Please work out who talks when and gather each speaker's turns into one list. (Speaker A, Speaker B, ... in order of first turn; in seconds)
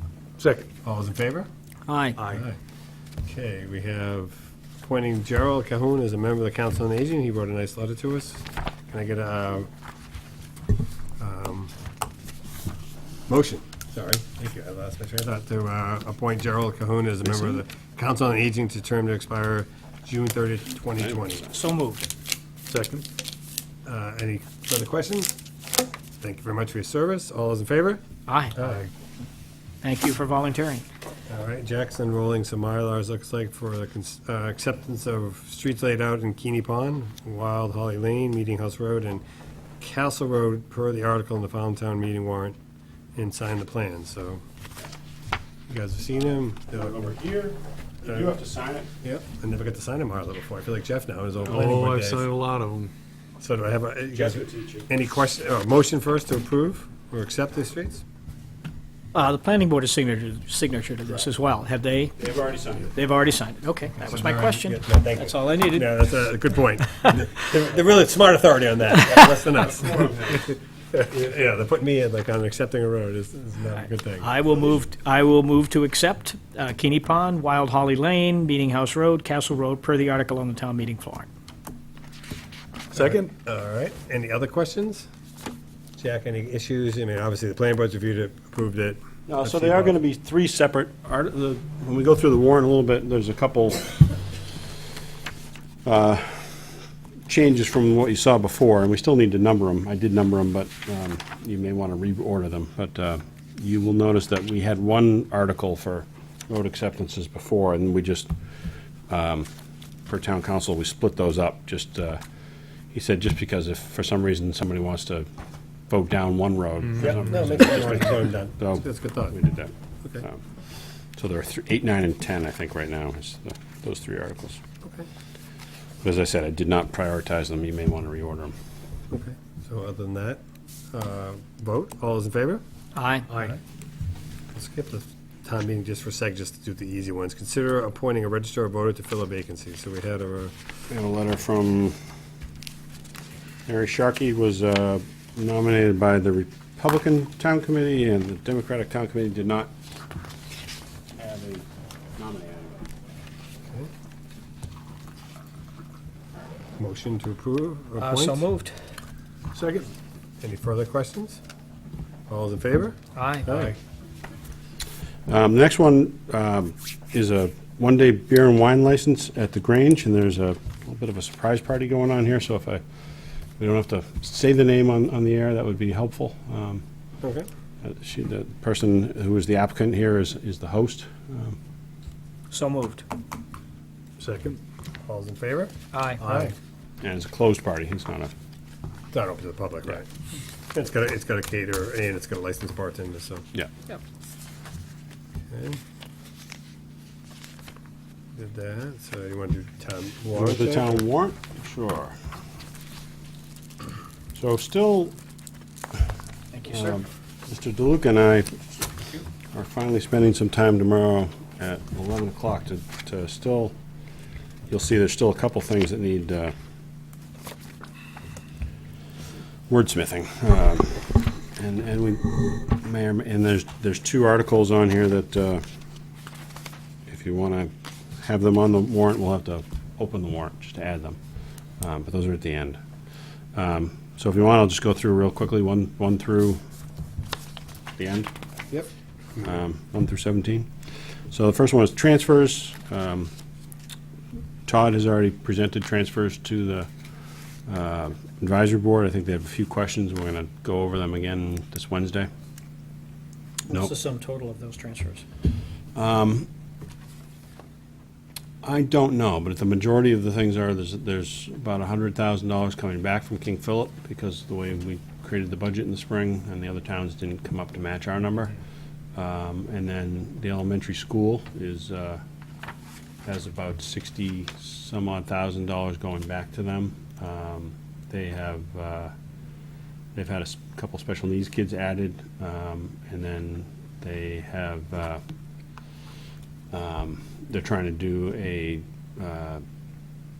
Speaker A: 0.4-0.7, 2.2-2.4, 22.7-23.1, 51.5-52.9, 82.9-83.3, 159.5-159.9, 184.2-184.6
Speaker B: 0.8-1.5, 2.3-2.6, 3.2-9.7, 11.2-11.7, 13.3-21.5, 23.9-25.3, 26.2-28.0, 28.5-28.9, 31.3-39.2, 39.8-42.5, 43.2-44.4, 45.7-47.1, 48.0-48.4, 49.0-52.3, 53.4-58.0, 64.0-74.8, 82.9-85.1, 86.0-90.0, 117.0-119.4, 124.8-125.1, 129.1-132.6, 134.5-140.5, 156.8-158.5, 160.4-161.4, 162.3-163.8, 177.2-177.5, 185.0-186.5, 189.1-190.1, 190.7-193.4, 195.5-195.8, 198.3-201.0
Speaker C: 1.9-2.2, 21.5-22.1, 28.3-28.6, 29.8-30.8, 59.1-62.1, 63.0-66.0, 74.2-81.3, 132.9-133.3, 158.0-158.8, 163.1-163.7, 182.5-183.0, 185.9-186.3, 206.5-207.0, 253.7-255.2
Speaker D: 46.7-48.9, 54.1-54.9, 62.2-62.9, 89.3-94.2, 95.8-96.7, 97.3-108.3, 109.1-109.5, 110.1-112.2, 112.9-115.3, 115.9-120.4, 121.2-124.6, 126.0-128.5, 140.9-141.9, 143.7-149.7, 151.2-152.9, 165.3-172.8, 173.6-176.8, 177.8-181.6, 187.0-188.3, 200.3-202.1, 204.3-205.1, 206.7-208.6, 209.5-213.8, 214.7-216.5, 219.7-225.6, 227.1-231.2, 231.8-232.8, 233.5-236.6, 238.0-238.3, 239.4-240.7, 241.3-243.3, 244.7-246.9, 247.7-252.3, 255.9-256.5, 258.6-268.5, 269.1-272.2, 273.2-279.1, 280.1-285.2, 286.7-289.6